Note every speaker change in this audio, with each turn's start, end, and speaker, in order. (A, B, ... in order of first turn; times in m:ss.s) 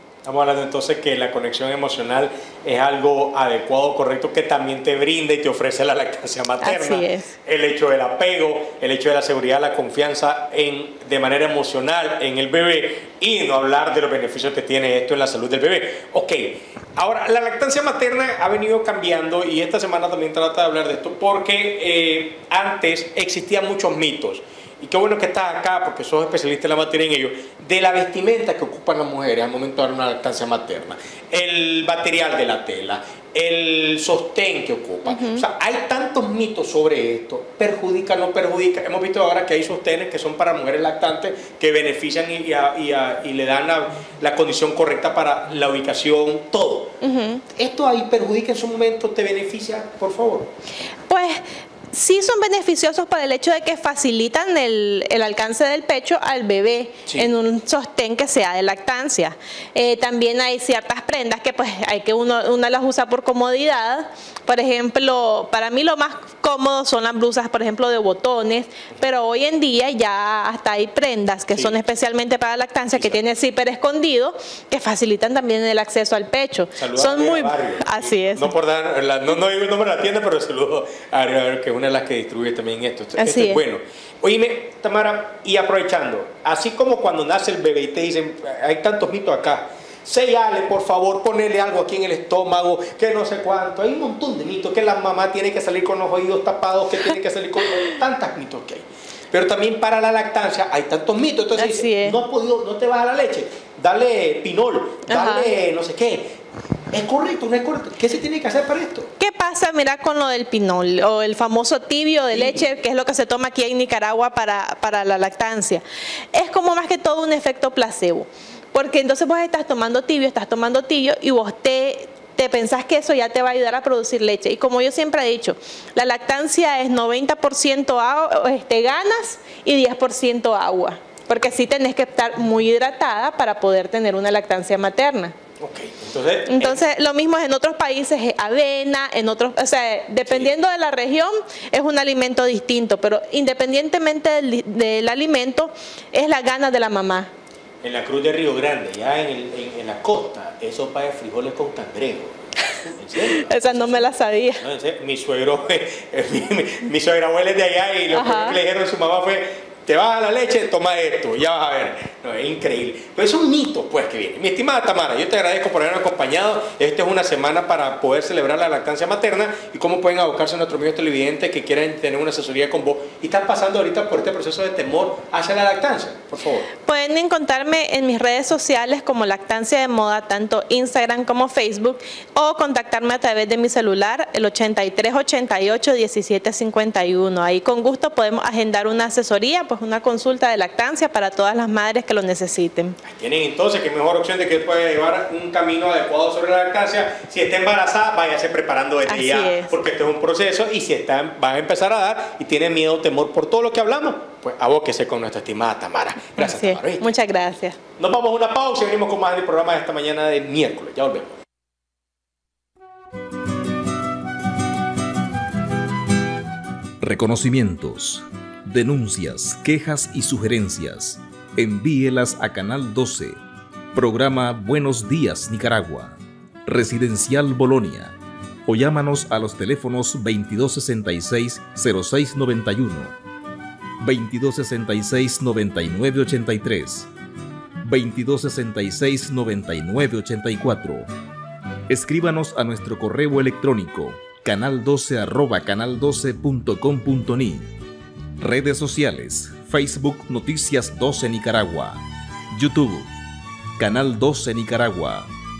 0:00.2-0:46.9 A
0:06.6-0:07.3 B
0:35.1-0:35.4 B
0:47.0-0:47.4 B
0:47.6-0:50.5 A
0:51.1-1:18.5 B
1:11.5-1:11.8 A
1:12.9-1:13.2 A
1:16.8-1:46.3 A
1:23.2-1:23.6 B
1:41.6-1:42.2 B
1:45.1-1:45.5 B
1:46.9-1:49.1 A
1:49.2-1:55.8 B
1:52.3-1:52.6 A
1:56.3-2:15.4 B
2:15.6-2:16.8 A
2:16.5-2:27.3 B
2:27.8-2:56.7 A
2:33.2-2:34.6 B
2:38.1-2:38.6 B
2:56.8-3:13.0 B
3:13.0-3:27.0 A
3:19.1-3:19.7 B
3:26.4-3:27.8 B
3:28.0-3:31.4 A
3:37.0-3:43.4 C
3:43.9-3:48.2 C
3:48.7-3:53.2 C
3:54.0-3:57.1 C
3:57.8-4:01.1 C
4:01.9-4:07.7 C
4:08.4-4:13.1 C
4:13.8-4:15.3 C